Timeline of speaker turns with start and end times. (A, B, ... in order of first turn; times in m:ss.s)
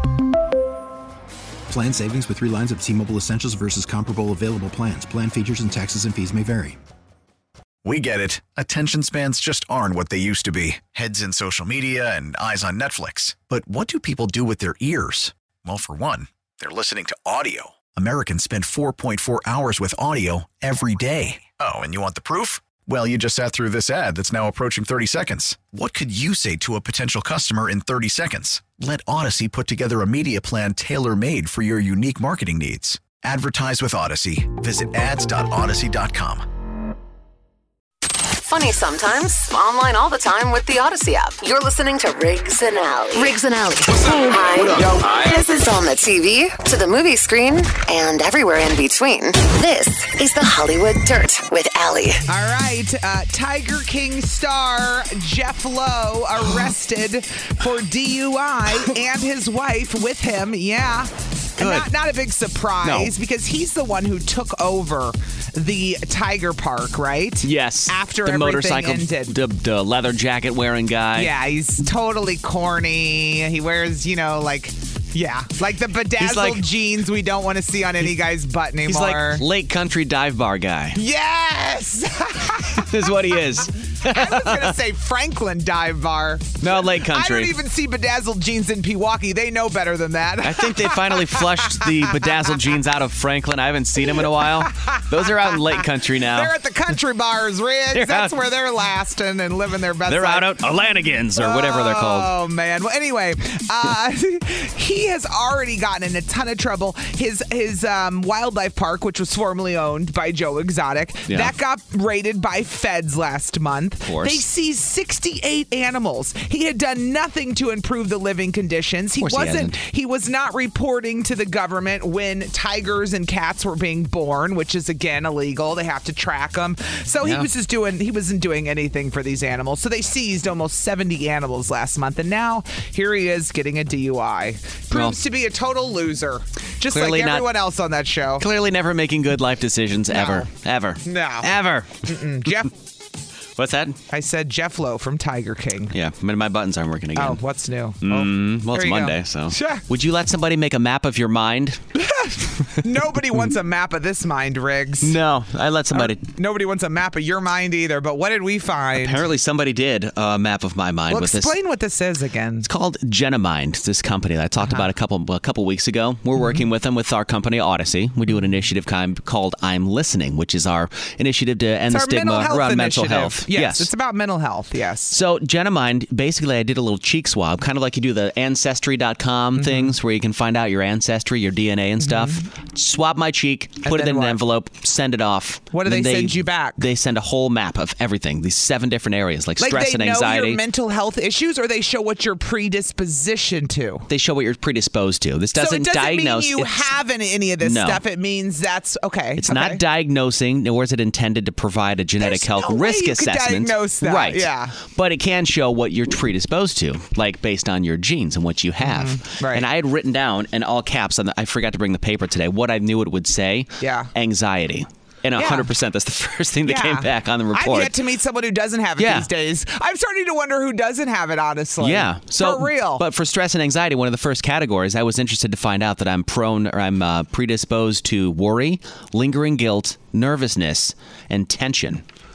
0:01.7-0:06.8 A
0:07.8-0:36.4 B
0:38.3-0:52.2 C
0:52.3-1:09.4 D
1:01.6-1:01.9 E
1:02.8-1:03.1 E
1:07.4-1:11.3 E
1:11.2-1:19.4 D
1:16.2-1:16.6 E
1:18.9-1:21.0 E
1:21.0-1:32.5 D
1:22.7-1:24.8 E
1:26.6-1:27.6 E
1:30.4-1:36.5 E
1:34.1-1:40.6 D
1:37.9-1:38.4 E
1:40.1-1:42.3 E
1:41.4-2:18.4 D
1:51.3-1:51.5 E
1:54.1-1:54.4 E
1:59.2-1:59.8 E
2:07.2-2:07.5 E
2:14.9-2:15.2 E
2:16.9-2:17.5 E
2:18.4-2:22.0 E
2:20.1-2:20.5 D
2:21.0-2:21.5 D
2:22.0-2:22.7 D
2:23.6-2:24.0 E
2:24.1-2:25.9 D
2:25.9-2:27.4 E
2:27.2-2:29.8 D
2:28.0-2:31.8 E
2:32.0-2:35.2 D
2:35.0-2:36.2 E
2:35.9-2:39.3 D
2:39.0-2:41.6 E
2:41.1-2:42.7 D
2:42.7-2:53.9 E
2:46.4-2:46.6 D
2:51.9-2:55.2 D
2:55.1-3:10.6 E
2:59.6-2:59.9 D
3:02.0-3:02.4 D
3:03.8-3:04.4 D
3:05.7-3:06.8 D
3:09.6-3:14.1 D
3:14.1-3:16.9 E
3:15.6-3:19.8 D
3:17.6-3:18.0 E
3:19.4-3:38.0 E
3:22.2-3:24.8 D
3:28.8-3:29.6 D
3:33.8-3:34.1 D
3:35.4-3:35.7 D
3:36.6-3:43.0 D
3:39.0-3:39.3 E
3:41.8-3:52.0 E